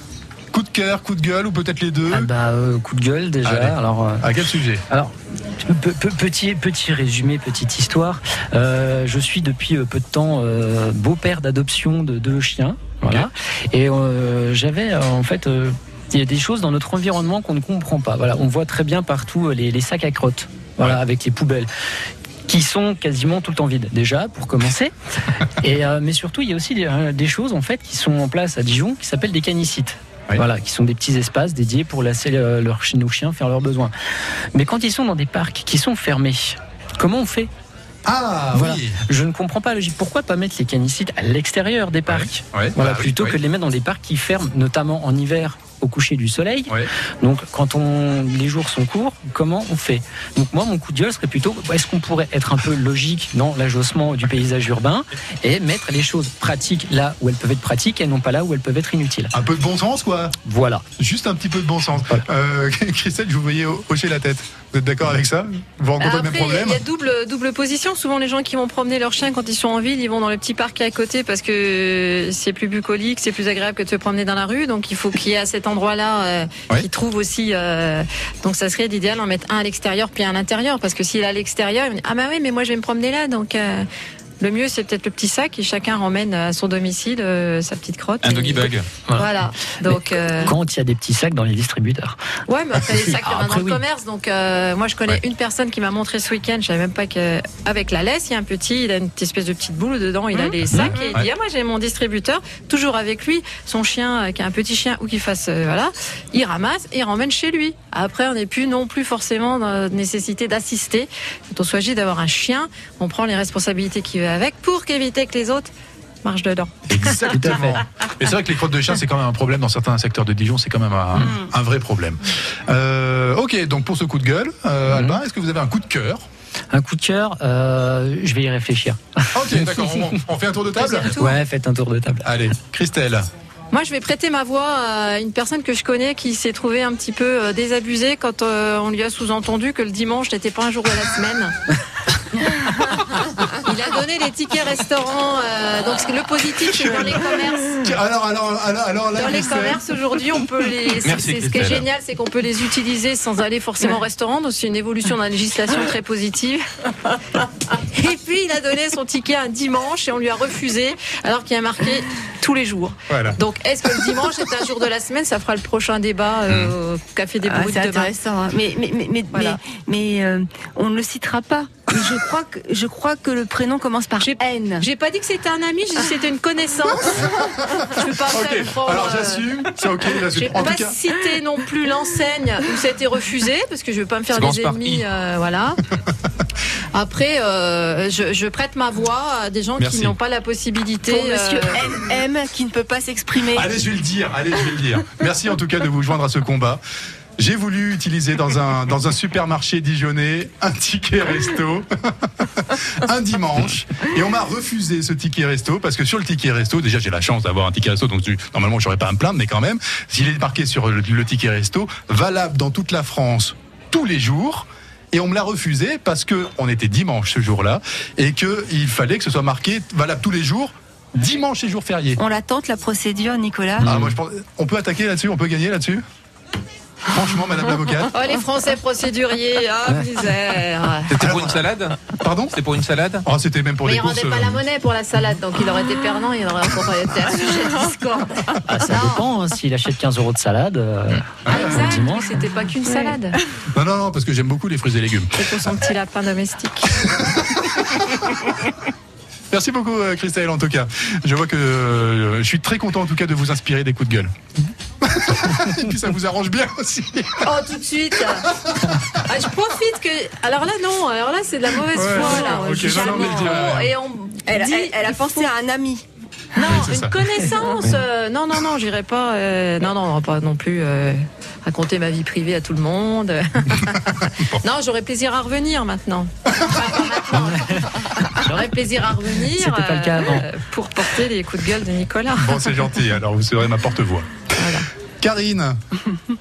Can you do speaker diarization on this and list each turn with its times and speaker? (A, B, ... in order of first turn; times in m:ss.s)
0:00.5-0:02.3 A
0:02.1-0:04.4 B
0:03.4-0:04.8 A
0:04.9-0:21.7 B
0:22.5-0:24.9 B
0:25.6-0:33.9 B
0:34.5-0:37.5 B
0:38.1-0:39.0 A
0:38.5-0:59.3 B
0:42.1-0:43.4 A
0:59.3-1:00.4 A
1:00.4-1:00.8 B
1:01.0-1:06.8 A
1:06.0-1:23.8 C
1:24.4-1:30.6 C
1:28.2-1:29.0 D
1:30.4-1:32.2 B
1:32.5-1:55.7 C
1:33.3-1:33.8 B
1:41.0-1:41.3 A
1:56.2-1:56.9 C
1:56.9-2:06.2 A
1:57.3-1:57.8 B
2:04.9-2:05.2 B
2:06.7-2:10.1 B
2:09.3-2:11.1 A
2:10.8-2:11.4 C
2:11.2-2:12.3 B
2:12.2-2:13.3 A
2:13.7-2:21.6 C
2:23.5-2:27.8 C
2:26.7-2:27.2 A
2:27.8-2:29.8 A
2:29.2-2:36.6 C
2:31.0-2:31.9 D
2:37.7-2:48.1 C
2:43.1-2:43.4 A
2:47.4-2:54.9 E
2:49.3-2:49.6 C
2:54.2-2:59.5 C
2:57.4-3:01.0 A
3:00.4-3:05.8 C
3:04.3-3:05.0 D
3:06.9-3:11.9 C
3:09.8-3:10.2 A
3:11.0-3:13.7 E
3:13.4-3:16.8 A
3:17.4-3:42.2 A
3:42.2-3:44.0 E
3:43.8-3:46.0 A
3:47.1-3:48.1 A
3:48.1-3:51.2 C
3:51.1-3:53.3 D
3:51.2-3:51.6 A
3:52.2-3:52.6 A
3:53.2-3:54.6 A
3:53.8-3:59.2 C
3:58.7-4:02.4 B
4:01.4-4:02.0 A
4:01.5-4:03.4 C
4:03.7-4:05.8 A
4:05.4-4:07.0 C
4:07.0-4:08.3 A
4:09.5-4:14.3 A
4:15.0-4:17.6 A
4:17.4-4:18.5 C
4:18.3-4:19.0 A
4:19.2-4:25.0 C
4:21.9-4:23.9 A
4:23.0-4:23.3 E
4:24.5-4:26.0 E
4:26.6-4:42.8 C
4:26.6-4:27.3 A
4:34.4-4:34.6 A
4:39.5-4:40.5 B
4:42.4-4:44.5 A
4:44.6-4:44.9 C
4:45.2-4:45.8 A